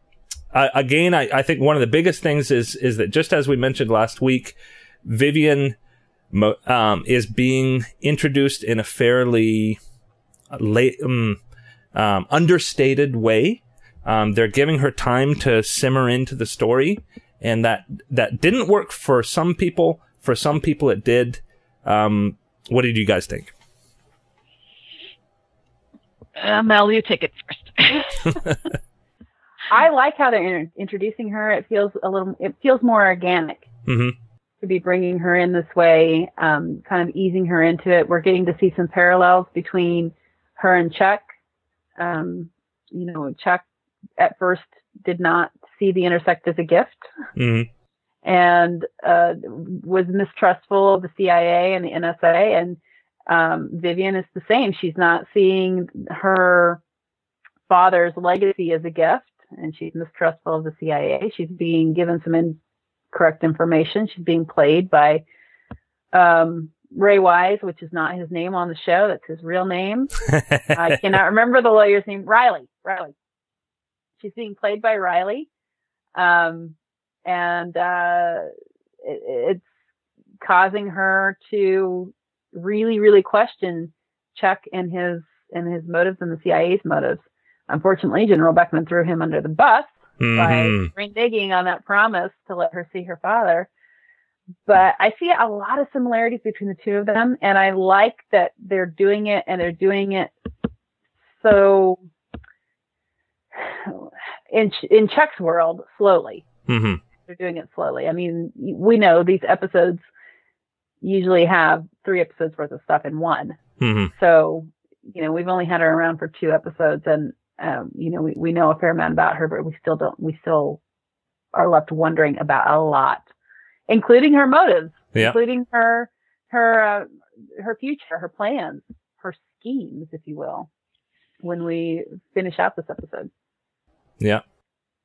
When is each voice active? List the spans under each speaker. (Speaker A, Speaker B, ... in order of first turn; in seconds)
Speaker A: 0.5-5.8, 6.3-9.8, 10.5-11.4, 11.9-23.5, 33.9-34.1, 47.4-47.7, 70.3-71.0, 90.2-90.9, 106.7-107.0, 113.8-114.1
Speaker B: 26.4-28.4
Speaker C: 29.7-33.6, 34.6-41.3, 42.0-43.6, 44.2-47.1, 48.2-56.8, 57.7-62.6, 63.1-65.2, 66.1-70.1, 70.7-73.1, 74.2-75.5, 76.1-76.7, 77.2-78.5, 79.0-79.7, 80.4-93.7, 94.7-100.3, 101.4-102.0, 103.5-106.4, 107.3-110.0, 111.0-113.6, 114.1-120.8, 121.5-123.2, 123.9-130.7, 131.4-133.3